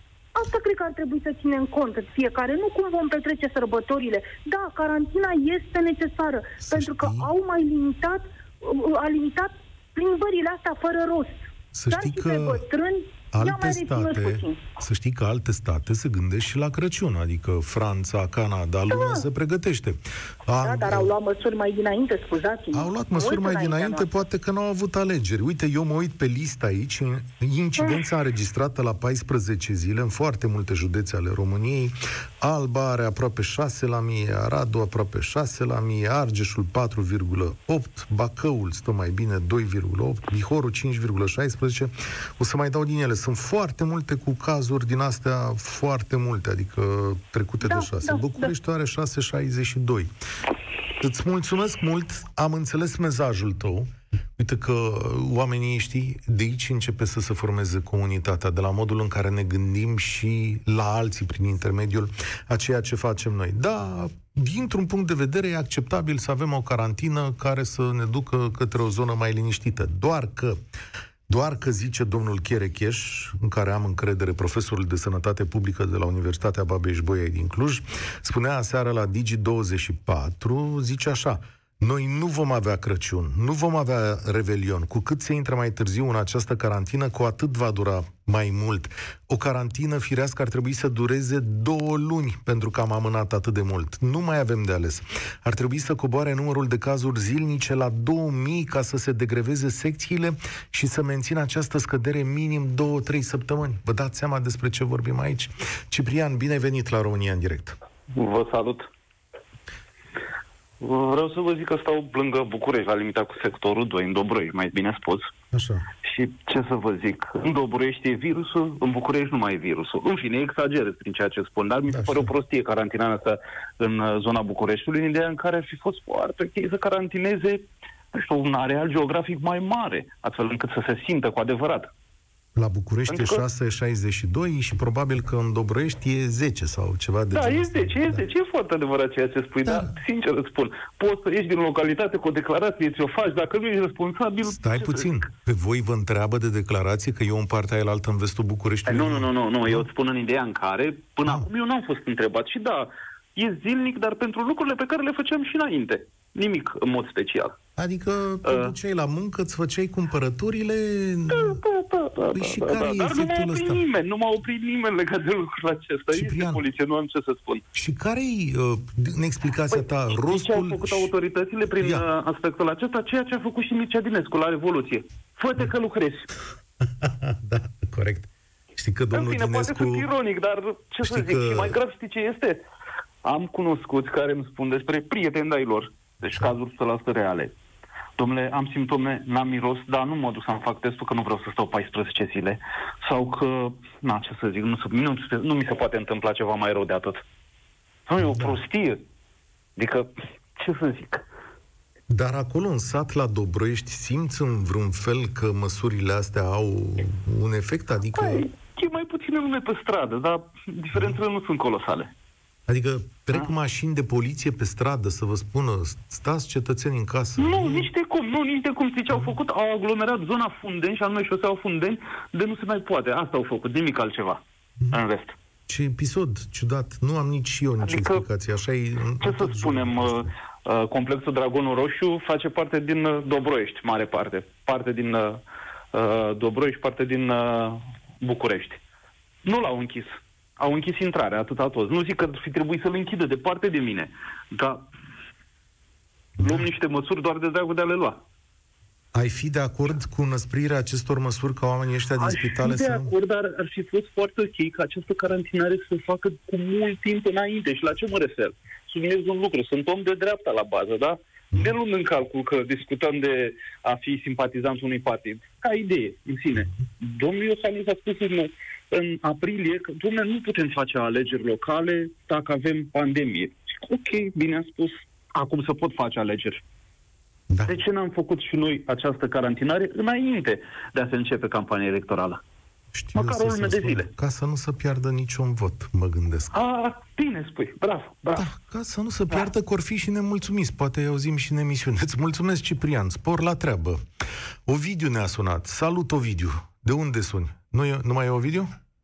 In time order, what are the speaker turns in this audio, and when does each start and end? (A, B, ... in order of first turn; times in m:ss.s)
0:00.3-0:14.6 A
0:06.6-0:07.3 B
0:11.7-0:12.6 B
0:13.3-0:21.1 B
0:18.9-0:19.2 A
0:20.6-0:24.1 A
0:22.7-0:50.1 B
0:47.6-0:48.5 A
0:51.0-1:10.6 B
1:11.3-1:47.8 B
1:48.1-1:48.9 C
1:50.8-1:55.3 C
1:55.5-1:55.8 B
1:56.0-2:11.9 C
2:01.9-2:02.3 B
2:12.5-2:18.2 B
2:13.1-2:13.4 C
2:17.3-2:25.2 C
2:19.6-2:19.9 B
2:24.4-2:29.9 B
2:28.8-2:37.6 C
2:37.8-2:41.6 B
2:38.4-2:38.7 C
2:41.3-2:47.6 C
2:42.3-2:43.8 B
2:46.1-2:46.6 B
2:47.7-2:51.1 B
2:49.7-2:56.3 C
2:51.8-2:52.0 B
2:56.9-3:00.1 B
2:59.1-3:02.6 C
3:01.0-3:01.8 B
3:03.2-3:07.5 C
3:08.2-3:17.2 C
3:18.1-3:19.0 C
3:18.2-3:18.6 B
3:19.8-3:21.2 C
3:22.1-3:28.5 B
3:28.1-3:32.1 C
3:32.7-3:37.9 B
3:37.4-3:45.3 C
3:45.7-3:50.3 B
3:47.8-3:48.2 C
3:49.2-3:55.4 C
3:55.9-3:58.8 C
3:59.4-4:04.9 C
4:06.4-4:08.2 C
4:06.4-4:06.6 B
4:09.1-4:13.1 B
4:12.2-4:36.6 C
4:37.5-4:37.8 B
4:37.6-4:42.4 C
4:42.9-4:46.6 B
4:43.2-4:44.1 C
4:46.5-4:48.4 C
4:48.3-4:54.0 B
4:54.6-4:58.7 B